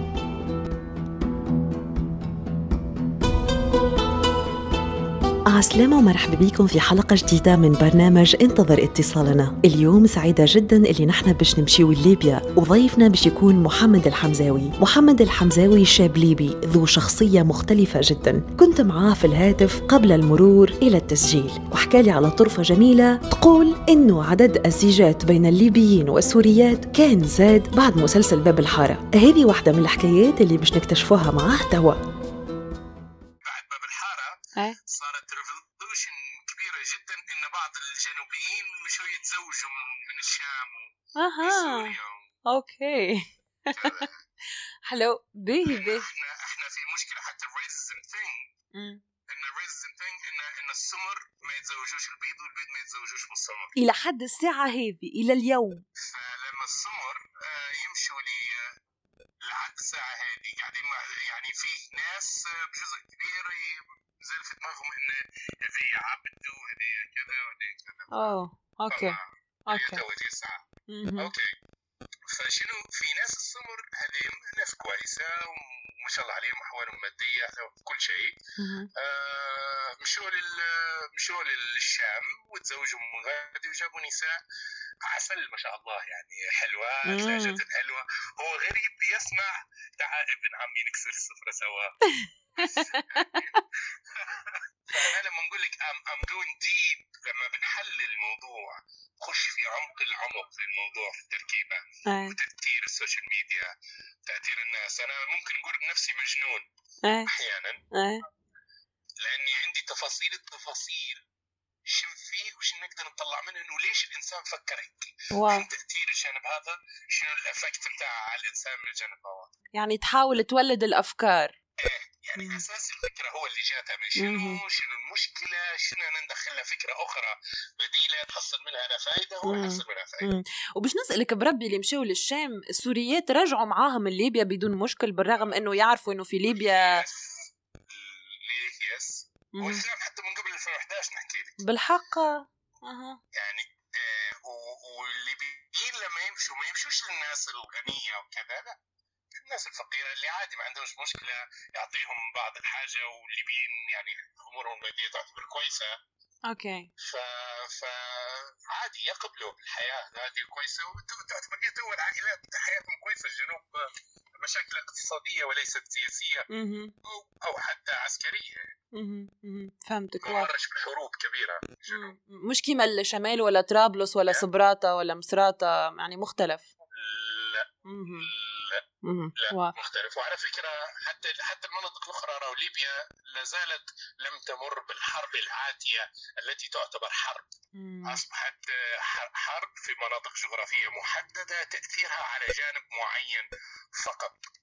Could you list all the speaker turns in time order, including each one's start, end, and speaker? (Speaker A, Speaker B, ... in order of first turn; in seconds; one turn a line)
Speaker A: 5.5-32.0
Speaker B: 33.4-42.3
Speaker C: 41.1-42.0
Speaker C: 42.5-44.1
Speaker B: 43.7-44.1
Speaker C: 44.9-46.1
Speaker B: 45.7-48.5
Speaker C: 48.7-49.0
Speaker B: 49.3-53.8
Speaker C: 53.8-55.8
Speaker B: 56.0-58.7
Speaker B: 59.4-68.3
Speaker C: 68.1-69.2
Speaker B: 68.9-70.6
Speaker C: 69.7-70.0
Speaker C: 70.9-71.3
Speaker B: 71.2-71.5
Speaker B: 72.3-78.4
Speaker C: 78.6-78.9
Speaker B: 78.9-84.4
Speaker B: 85.0-92.0
Speaker C: 87.0-87.6
Speaker C: 92.1-93.6
Speaker B: 92.6-103.7
Speaker C: 102.0-102.3
Speaker B: 104.2-106.7
Speaker C: 107.0-107.3
Speaker B: 107.3-107.8
Speaker C: 107.9-108.2
Speaker B: 109.2-111.2
Speaker B: 111.8-119.5
Speaker C: 115.3-115.7
Speaker C: 119.8-121.5
Speaker B: 121.8-130.3
Speaker C: 122.3-122.6
Speaker C: 124.2-124.6
Speaker C: 129.4-137.0
Speaker B: 136.5-141.6
Speaker C: 139.5-139.8
Speaker C: 141.6-143.2
Speaker B: 143.3-148.8
Speaker B: 149.3-155.9
Speaker C: 156.5-156.9
Speaker B: 157.0-166.5
Speaker C: 166.5-166.9
Speaker B: 167.0-168.7
Speaker C: 168.9-170.5
Speaker B: 170.2-172.1
Speaker C: 171.9-176.7
Speaker B: 176.9-178.8
Speaker C: 177.8-178.3
Speaker C: 179.0-179.7
Speaker B: 179.3-187.5
Speaker C: 187.7-188.2
Speaker B: 188.0-194.4